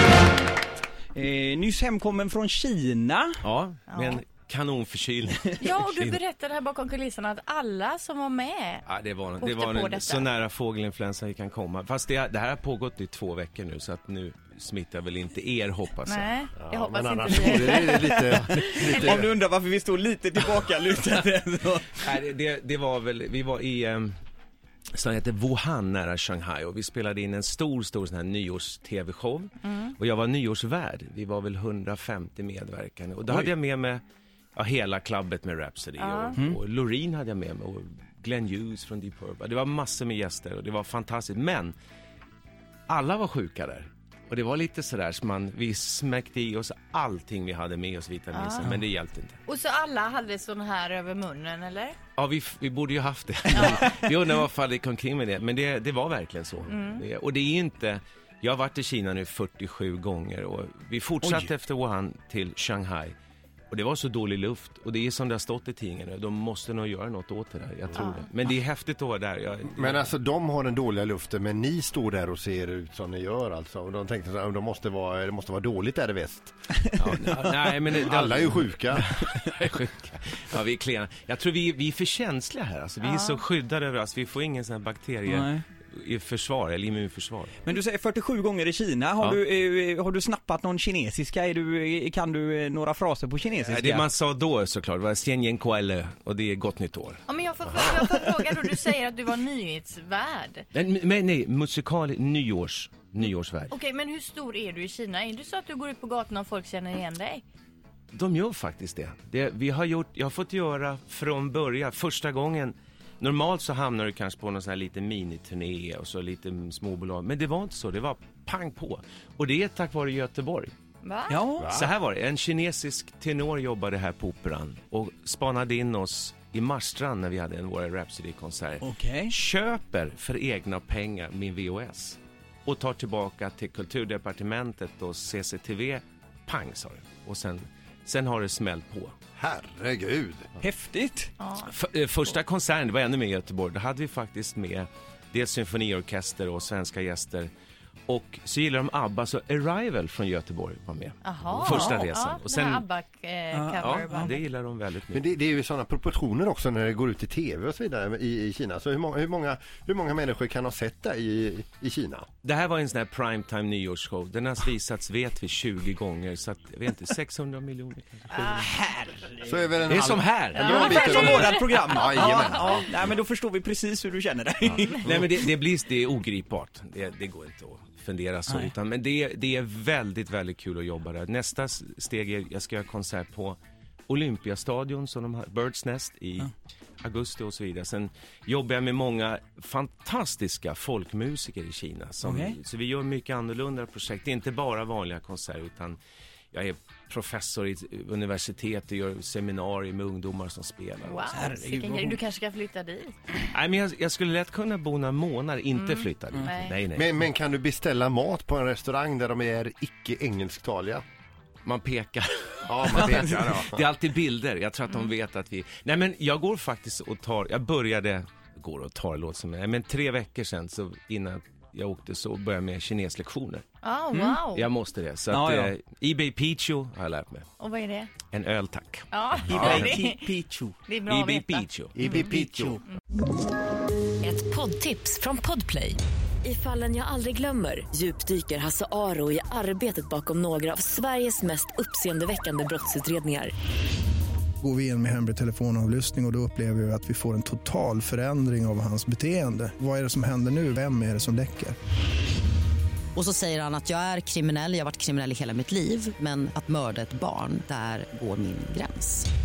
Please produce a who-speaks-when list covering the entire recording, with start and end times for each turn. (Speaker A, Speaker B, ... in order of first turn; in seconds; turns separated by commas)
Speaker A: 1.1-3.4, Speaker B: 3.4-6.2, Speaker C: 3.9-4.2, Speaker C: 5.6-8.8, Speaker B: 8.9-16.3, Speaker C: 9.4-10.3, Speaker C: 16.1-19.2, Speaker D: 16.6-19.3, Speaker A: 17.5-22.0, Speaker B: 21.9-24.1, Speaker B: 24.9-34.0, Speaker B: 34.5-41.7, Speaker C: 36.0-36.4, Speaker B: 42.9-49.4, Speaker C: 48.3-48.7, Speaker C: 49.5-52.0, Speaker B: 52.2-63.1, Speaker C: 53.5-53.8, Speaker C: 56.7-57.0, Speaker A: 61.2-61.5, Speaker B: 63.7-70.1, Speaker D: 69.8-76.9, Speaker B: 77.0-87.6, Speaker D: 78.0-79.1, Speaker C: 83.0-83.4, Speaker A: 85.3-85.6, Speaker A: 87.6-94.1, Speaker B: 93.6-97.2, Speaker C: 97.3-100.7, Speaker B: 100.7-103.7, Speaker C: 103.7-107.4, Speaker B: 108.1-120.7, Speaker C: 121.0-121.4, Speaker A: 121.3-121.8, Speaker B: 121.6-139.2, Speaker A: 128.8-129.3, Speaker D: 139.4-140.5, Speaker A: 140.6-141.3, Speaker C: 141.4-141.7, Speaker B: 141.6-147.5, Speaker B: 148.1-152.8, Speaker C: 151.2-154.4, Speaker A: 153.5-154.3, Speaker B: 153.8-155.2, Speaker D: 155.1-162.2, Speaker B: 162.4-168.5, Speaker A: 168.4-169.5, Speaker D: 169.4-173.0, Speaker B: 169.9-171.7, Speaker C: 170.6-171.6, Speaker A: 170.6-175.5, Speaker B: 174.8-196.0, Speaker A: 192.2-192.6, Speaker B: 196.5-201.5, Speaker C: 201.0-203.2, Speaker A: 201.3-202.2, Speaker B: 203.5-207.1, Speaker C: 205.7-206.8, Speaker D: 206.9-211.0, Speaker B: 211.6-223.6, Speaker D: 212.7-213.9, Speaker C: 223.8-224.7, Speaker A: 224.1-224.4, Speaker B: 224.5-227.5, Speaker A: 225.3-225.7, Speaker C: 227.6-228.1, Speaker B: 228.3-229.9, Speaker C: 229.1-230.3, Speaker A: 229.5-230.8, Speaker C: 230.8-232.3, Speaker B: 231.1-232.4, Speaker A: 232.0-232.8, Speaker D: 232.4-232.8, Speaker E: 234.2-243.5, Speaker F: 244.6-251.8, Speaker G: 253.2-259.2